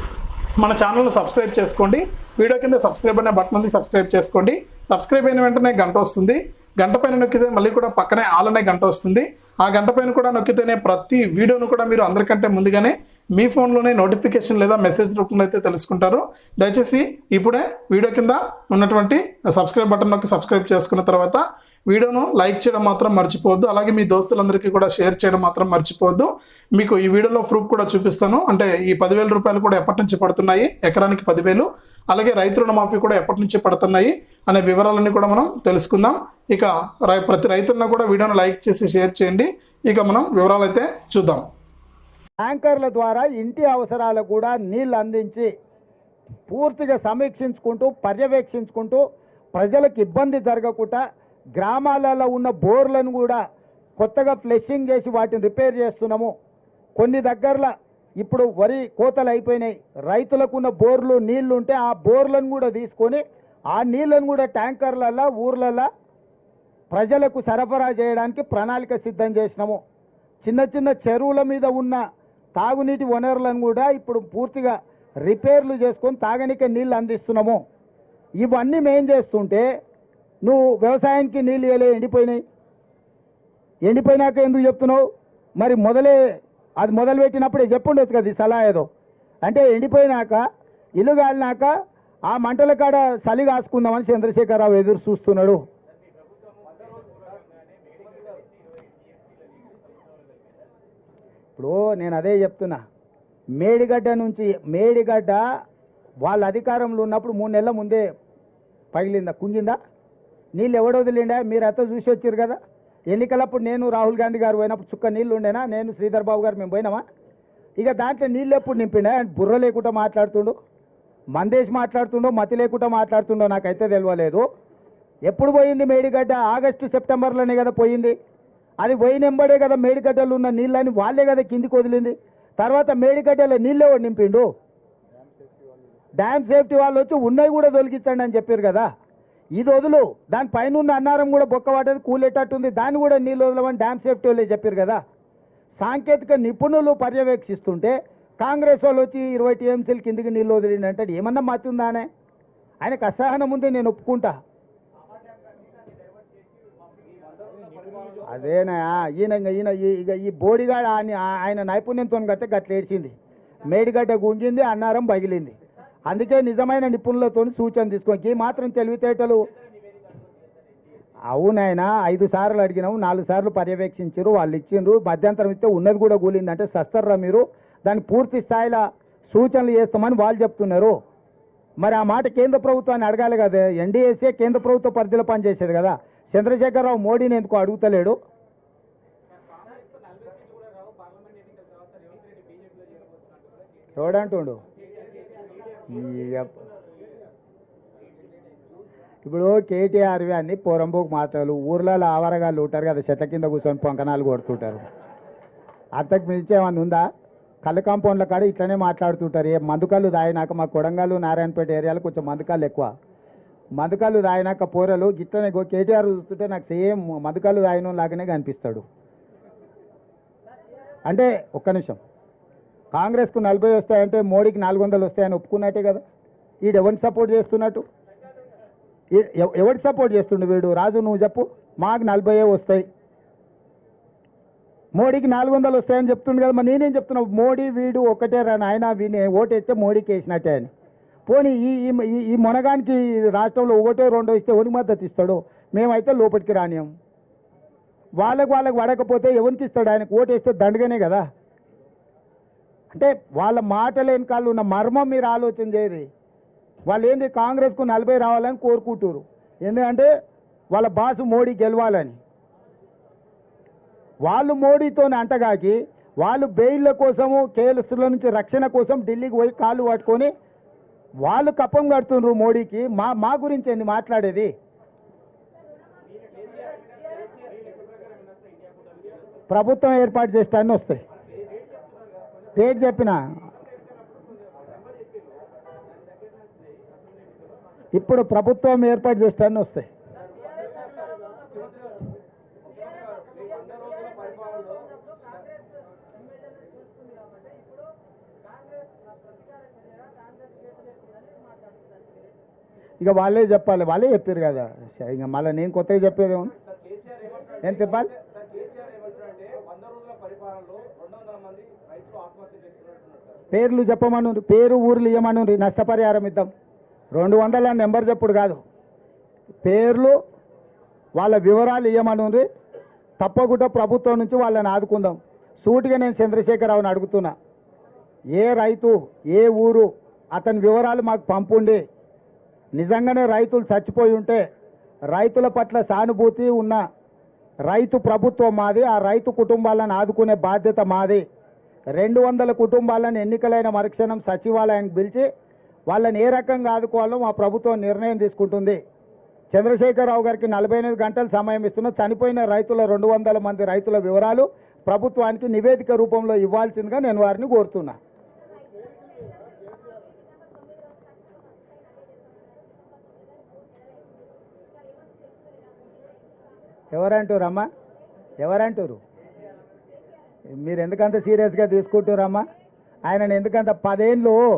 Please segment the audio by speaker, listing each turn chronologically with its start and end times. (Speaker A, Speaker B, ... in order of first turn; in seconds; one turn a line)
Speaker A: 0.6-41.5
Speaker B: 42.4-45.5
Speaker B: 46.5-49.0
Speaker B: 49.5-51.0
Speaker B: 51.5-53.4
Speaker B: 54.0-56.3
Speaker B: 57.0-65.9
Speaker B: 66.9-69.8
Speaker B: 70.4-72.0
Speaker B: 72.5-77.6
Speaker B: 78.4-79.7
Speaker B: 80.4-82.4
Speaker B: 83.8-85.0
Speaker B: 85.6-86.2
Speaker B: 86.8-88.9
Speaker B: 89.4-90.4
Speaker B: 91.0-91.7
Speaker B: 92.3-95.6
Speaker C: 96.6-98.5
Speaker B: 101.6-102.8
Speaker B: 103.6-105.4
Speaker B: 106.2-108.1
Speaker B: 108.9-109.8
Speaker B: 110.5-112.6
Speaker B: 113.1-117.0
Speaker B: 117.8-120.5
Speaker B: 121.3-124.4
Speaker B: 125.3-128.2
Speaker B: 128.8-134.5
Speaker B: 136.2-138.9
Speaker B: 139.6-145.0
Speaker B: 145.8-152.1
Speaker B: 152.8-154.4
Speaker C: 156.9-158.4
Speaker B: 158.3-165.5
Speaker B: 166.1-169.5
Speaker B: 171.3-180.9
Speaker B: 181.8-188.2
Speaker C: 189.4-193.9
Speaker B: 194.0-194.6
Speaker C: 194.8-195.9
Speaker B: 195.9-196.6
Speaker C: 198.3-198.8
Speaker B: 199.2-204.8
Speaker B: 206.0-207.1
Speaker B: 207.6-212.9
Speaker B: 213.8-218.8
Speaker B: 221.1-222.0
Speaker B: 222.9-226.0
Speaker B: 226.6-227.8
Speaker B: 229.1-232.8
Speaker B: 234.9-240.7
Speaker B: 241.3-246.9
Speaker B: 248.2-251.2
Speaker B: 252.9-256.1
Speaker B: 256.9-260.1
Speaker B: 260.7-262.2
Speaker B: 264.2-270.3
Speaker B: 271.2-274.5
Speaker C: 276.3-279.3
Speaker B: 279.5-281.0
Speaker C: 281.2-281.7
Speaker B: 282.6-283.2
Speaker B: 287.9-289.9
Speaker C: 290.1-295.6
Speaker B: 303.0-306.5
Speaker C: 306.6-313.4
Speaker B: 307.6-308.1
Speaker B: 313.5-316.5
Speaker B: 317.1-318.6
Speaker B: 319.6-320.2
Speaker B: 321.2-322.4
Speaker B: 323.2-327.3
Speaker B: 328.4-331.8
Speaker B: 332.8-334.4
Speaker B: 335.1-336.8
Speaker B: 337.7-341.2
Speaker B: 341.9-345.3
Speaker B: 345.9-348.8
Speaker B: 349.5-358.0
Speaker B: 366.9-367.7
Speaker B: 368.4-369.0
Speaker B: 370.5-372.5
Speaker B: 373.1-374.4